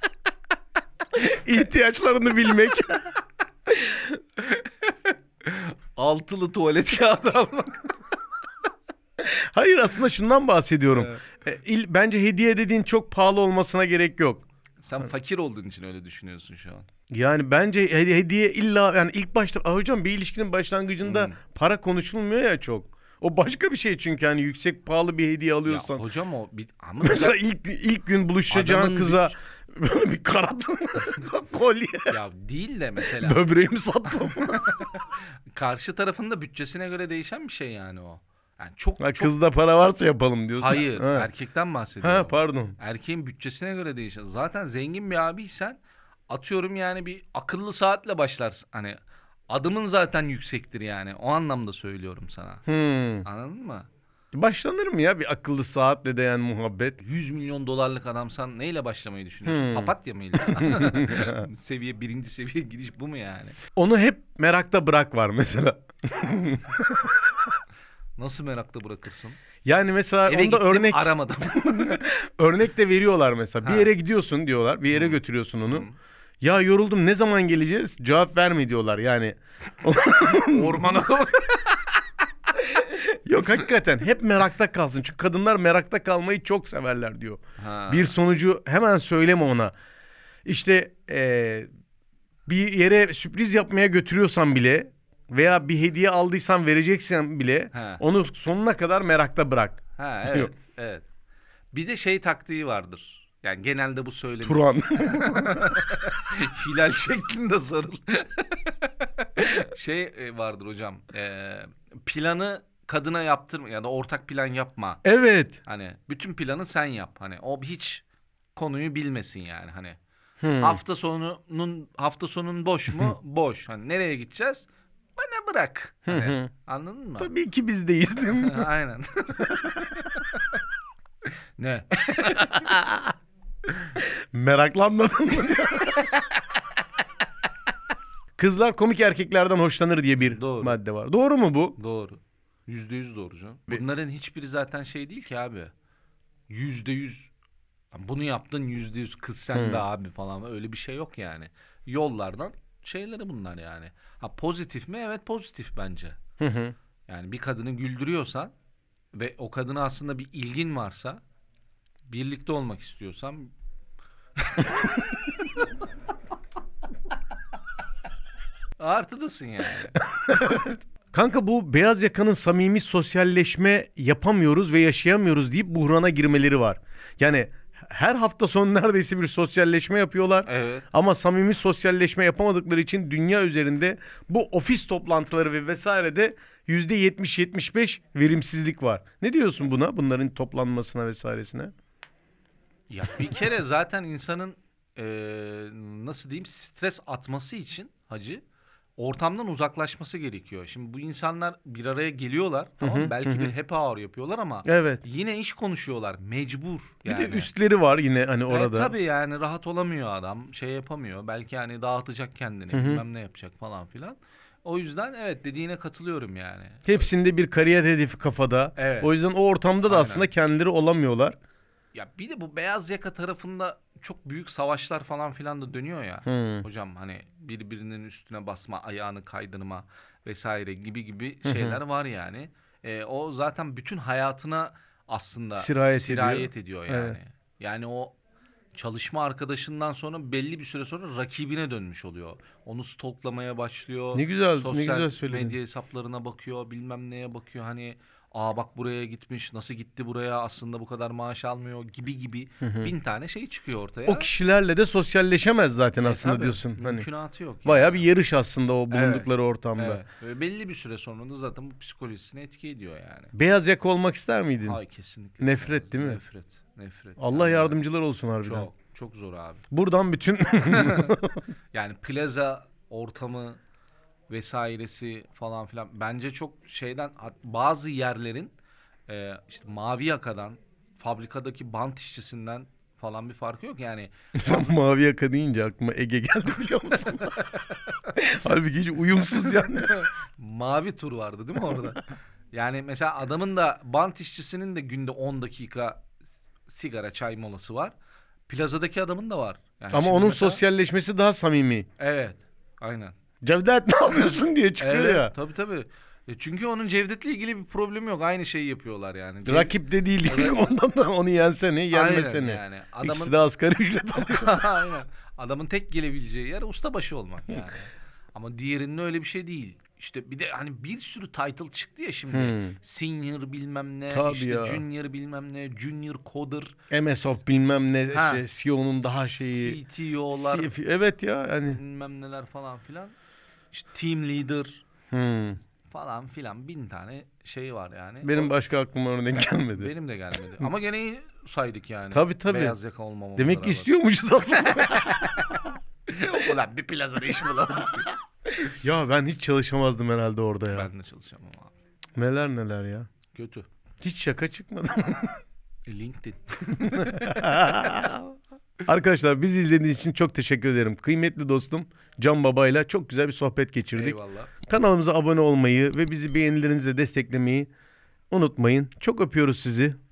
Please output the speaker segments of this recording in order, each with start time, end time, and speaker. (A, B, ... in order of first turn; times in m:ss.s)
0:01.1-0:03.1 A
0:03.7-0:04.2 A
0:04.4-0:08.0 B
0:09.2-0:14.4 A
0:10.9-0:11.2 B
0:14.8-0:16.9 B
0:17.1-0:26.0 A
0:21.0-0:21.4 B
0:25.6-0:27.4 B
0:27.0-0:32.2 A
0:28.5-0:29.3 B
0:32.1-0:33.4 B
0:33.0-0:34.7 A
0:34.1-0:39.3 B
0:39.0-0:41.3 A
0:40.6-0:45.8 B
0:42.0-0:42.8 A
0:46.3-0:49.0 B
0:49.5-0:52.6 B
0:52.6-0:53.2 A
0:53.2-0:53.9 B
0:54.3-0:57.0 A
0:57.0-1:03.6 B
0:59.4-1:01.4 A
1:03.7-1:07.5 A
1:08.2-1:09.4 B
1:09.6-1:15.8 A
1:10.3-1:12.0 B
1:13.6-1:13.9 B
1:14.9-1:15.2 B
1:15.7-1:16.0 B
1:16.4-1:21.0 A
1:20.4-1:21.9 B
1:22.5-1:29.7 A
1:27.6-1:28.2 B
1:30.4-1:31.7 A
1:32.5-1:40.5 A
1:37.7-1:38.0 B
1:40.0-1:41.0 B
1:41.7-1:55.0 B
1:44.4-1:45.5 A
1:55.0-1:55.6 A
1:55.6-1:58.0 B
1:58.5-2:00.0 B
2:00.4-2:00.8 A
2:00.6-2:07.3 B
2:06.1-2:06.5 A
2:07.2-2:08.7 A
2:08.3-2:10.4 B
2:11.6-2:12.7 B
2:12.4-2:13.1 A
2:13.7-2:14.0 B
2:14.0-2:16.2 A
2:18.4-2:21.8 A
2:20.2-2:20.8 B
2:21.8-2:25.7 B
2:26.5-2:27.3 B
2:27.9-2:36.2 B
2:29.5-2:29.8 A
2:36.4-2:36.7 A
2:37.1-2:38.5 B
2:39.1-2:41.2 B
2:42.1-2:43.5 B
2:44.4-2:45.5 B
2:48.8-2:50.5 B
2:50.1-3:11.7 A
3:00.4-3:00.8 B
3:12.9-3:18.4 B
3:19.0-3:27.5 B
3:22.8-3:23.5 A
3:24.6-3:25.0 A
3:27.1-3:28.9 A
3:28.5-3:37.1 B
3:32.7-3:33.0 A
3:36.9-3:41.4 A
3:38.8-3:39.1 B
3:39.9-3:40.3 B
3:41.9-3:58.1 B
3:46.2-3:46.6 A
3:51.4-3:51.8 A
3:55.6-3:57.2 A
3:58.7-4:14.3 B
4:04.1-4:05.5 A
4:12.6-4:12.9 A
4:14.1-4:17.1 A
4:16.0-4:18.1 B
4:17.6-4:20.0 A
4:18.9-4:23.3 B
4:23.3-4:24.8 A
4:24.6-4:27.8 B
4:25.4-4:26.2 A
4:27.2-4:28.7 A
4:28.4-4:29.6 B
4:29.7-4:31.4 A
4:30.6-4:31.1 B
4:31.7-4:33.6 B
4:34.3-4:38.5 B
4:39.1-4:44.7 B
4:44.4-4:47.6 A
4:47.2-4:47.9 B
4:48.1-4:50.0 A
4:49.8-4:56.1 B
4:56.7-4:57.9 B
4:58.5-5:00.6 B
4:59.9-5:01.9 A
5:02.0-5:03.1 B
5:03.4-5:05.3 A
5:04.8-5:10.7 B
5:09.4-5:14.7 A
5:11.9-5:13.4 B
5:14.2-5:26.7 B
5:22.3-5:22.7 A
5:24.1-5:24.8 A
5:26.9-5:29.8 A
5:28.1-5:28.4 B
5:29.0-5:30.7 B
5:30.3-5:31.8 A
5:31.6-5:33.1 B
5:33.7-5:34.8 B
5:35.1-5:35.6 A
5:35.9-5:38.5 B
5:38.2-5:39.9 A
5:39.8-5:43.9 B
5:42.1-5:42.8 A
5:43.4-5:45.7 A
5:44.5-5:48.7 B
5:48.6-5:50.9 A
5:50.7-5:51.7 B
5:52.2-5:53.1 A
5:53.3-5:53.7 B
5:54.0-5:55.4 A
5:55.8-5:58.2 B
5:56.8-5:58.3 A
5:58.9-6:07.7 A
6:03.9-6:04.5 B
6:08.3-6:10.0 A